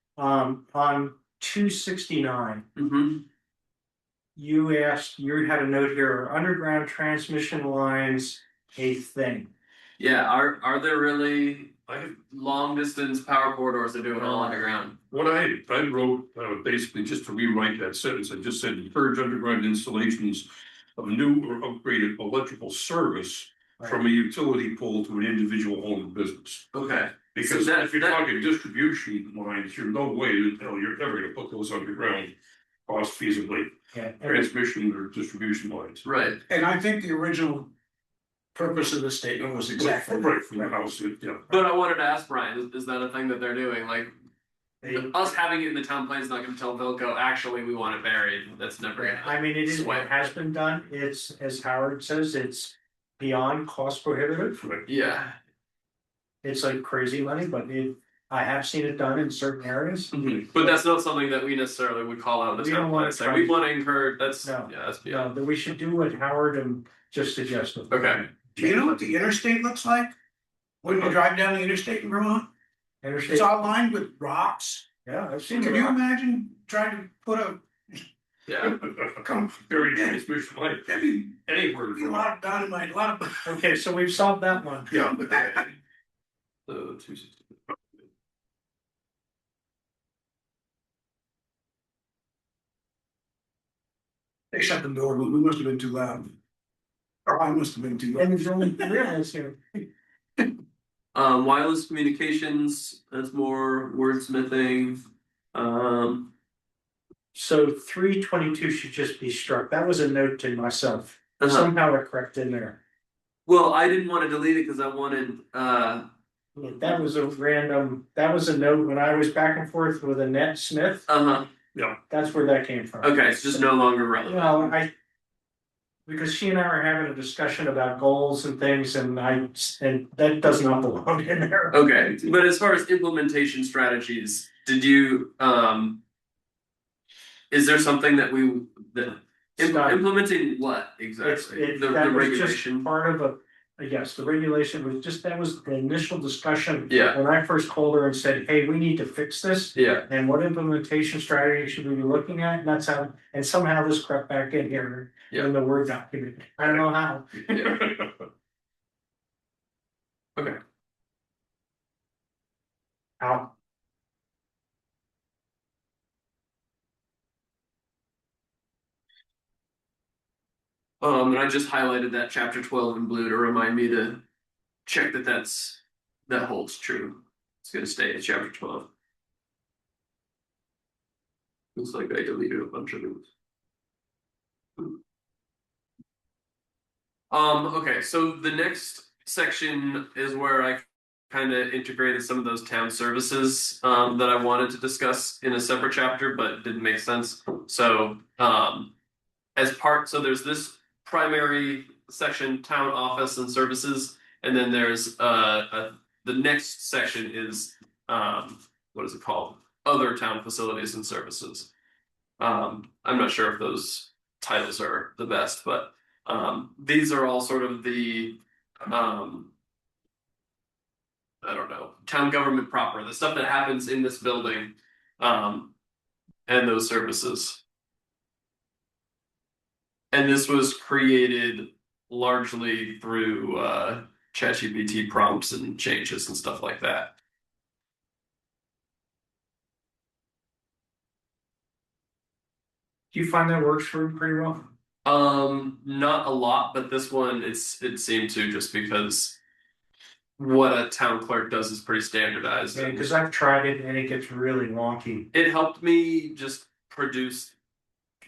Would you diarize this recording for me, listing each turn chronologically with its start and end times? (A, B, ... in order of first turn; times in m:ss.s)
0:00.2-0:02.7 A
0:02.8-0:03.2 B
0:04.4-0:09.5 A
0:10.0-0:15.0 B
0:15.1-0:26.7 C
0:26.7-0:28.2 B
0:27.3-0:32.3 C
0:32.9-0:36.0 C
0:33.9-0:34.5 A
0:36.0-0:36.4 B
0:36.5-0:37.7 D
0:38.5-0:40.7 D
0:39.8-0:41.4 C
0:41.5-0:44.1 B
0:44.8-0:45.1 A
0:44.8-0:50.1 B
0:49.0-0:54.6 A
0:54.6-0:54.8 C
0:54.9-0:55.4 B
0:56.4-1:00.8 A
1:00.1-1:05.3 B
1:02.6-1:03.6 A
1:04.4-1:08.9 A
1:07.9-1:08.3 B
1:08.6-1:10.1 D
1:10.8-1:12.5 D
1:10.8-1:11.2 C
1:13.0-1:13.6 A
1:13.3-1:14.8 D
1:15.0-1:16.0 A
1:15.5-1:18.0 D
1:18.5-1:18.8 B
1:18.7-1:20.2 D
1:19.6-1:22.3 C
1:20.8-1:21.3 D
1:21.9-1:23.6 D
1:23.4-1:25.0 A
1:24.9-1:25.6 C
1:24.9-1:25.6 D
1:26.7-1:27.5 B
1:34.5-1:36.3 D
1:37.2-1:38.9 D
1:38.2-1:39.6 A
1:41.1-1:46.3 B
1:47.3-1:52.8 A
1:51.4-1:51.7 B
1:53.4-1:56.1 B
1:56.6-2:01.1 A
2:01.1-2:01.5 B
2:02.1-2:03.6 A
2:03.0-2:04.7 B
2:04.2-2:04.9 A
2:06.0-2:11.8 A
2:11.7-2:16.0 B
2:17.5-2:22.9 B
2:19.6-2:20.0 A
2:21.2-2:37.5 A
2:26.9-2:27.2 B
2:29.7-2:30.1 B
2:37.5-2:37.9 B
2:37.7-2:38.1 C
2:43.2-2:43.5 A
2:51.0-2:54.2 B
2:54.8-2:58.9 B
3:01.8-3:03.3 B
3:07.3-3:18.9 B
3:19.6-3:31.7 B
3:32.4-3:39.5 B
3:41.4-3:45.7 B
3:46.5-3:47.6 B
3:50.1-3:57.1 B
4:03.1-4:04.7 A
4:05.0-4:09.4 B
4:10.4-4:13.1 B
4:12.7-4:15.3 A
4:15.3-4:17.5 B